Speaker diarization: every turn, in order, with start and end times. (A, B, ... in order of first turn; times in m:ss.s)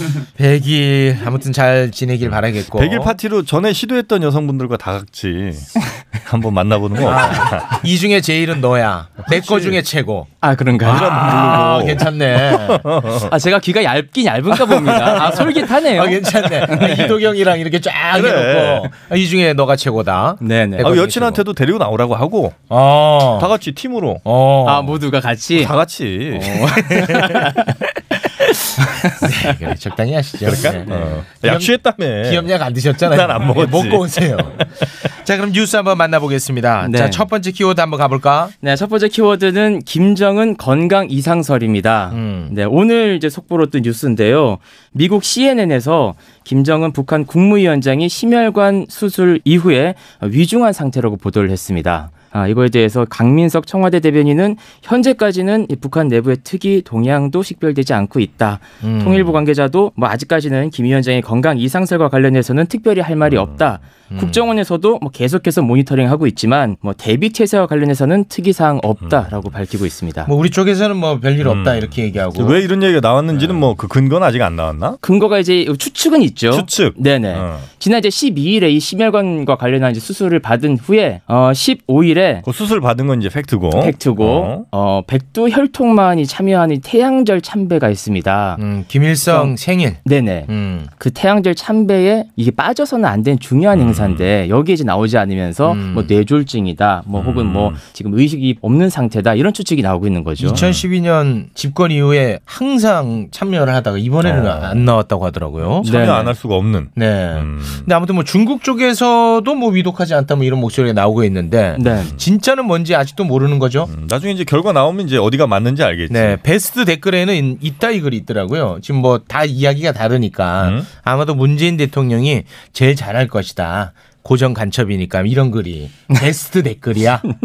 0:00.4-0:03.2 A
0:02.7-0:07.8 B
0:07.0-0:10.3 A
0:10.4-0:11.3 C
0:10.8-0:12.9 A
0:10.8-0:13.3 B
0:13.3-0:17.2 C
0:14.7-0:15.4 B
0:15.2-0:21.4 A
0:18.1-0:18.9 B
0:20.4-0:20.9 C
0:20.8-0:22.6 B
0:22.7-0:23.5 A
0:23.3-0:24.2 B
0:24.2-0:25.0 A
0:24.6-0:25.7 C
0:25.6-0:26.7 B
0:26.3-0:27.8 C
0:26.9-0:27.4 A
0:28.8-0:29.5 C
0:29.2-0:38.5 A
0:30.4-0:32.5 B
0:30.9-0:31.2 C
0:33.0-0:34.6 B
0:36.8-0:37.2 C
0:38.6-1:10.3 C
0:42.1-0:42.5 A
0:58.8-0:59.4 A
1:03.3-1:03.7 B
1:04.1-1:04.4 A
1:10.3-1:12.6 A
1:11.4-1:15.0 B
1:15.0-1:22.4 C
1:16.5-1:17.7 B
1:22.4-1:24.7 B
1:23.7-1:28.6 C
1:28.6-1:30.9 A
1:29.3-1:40.6 C
1:33.7-1:34.3 B
1:35.6-1:36.1 A
1:37.1-1:37.8 B
1:40.4-1:46.1 A
1:40.5-1:40.8 B
1:44.2-1:44.9 B
1:45.8-1:47.9 B
1:45.8-1:46.3 C
1:47.0-1:53.9 A
1:51.8-1:52.2 C
1:53.9-1:56.4 B
1:56.1-2:07.3 A
2:00.6-2:00.9 B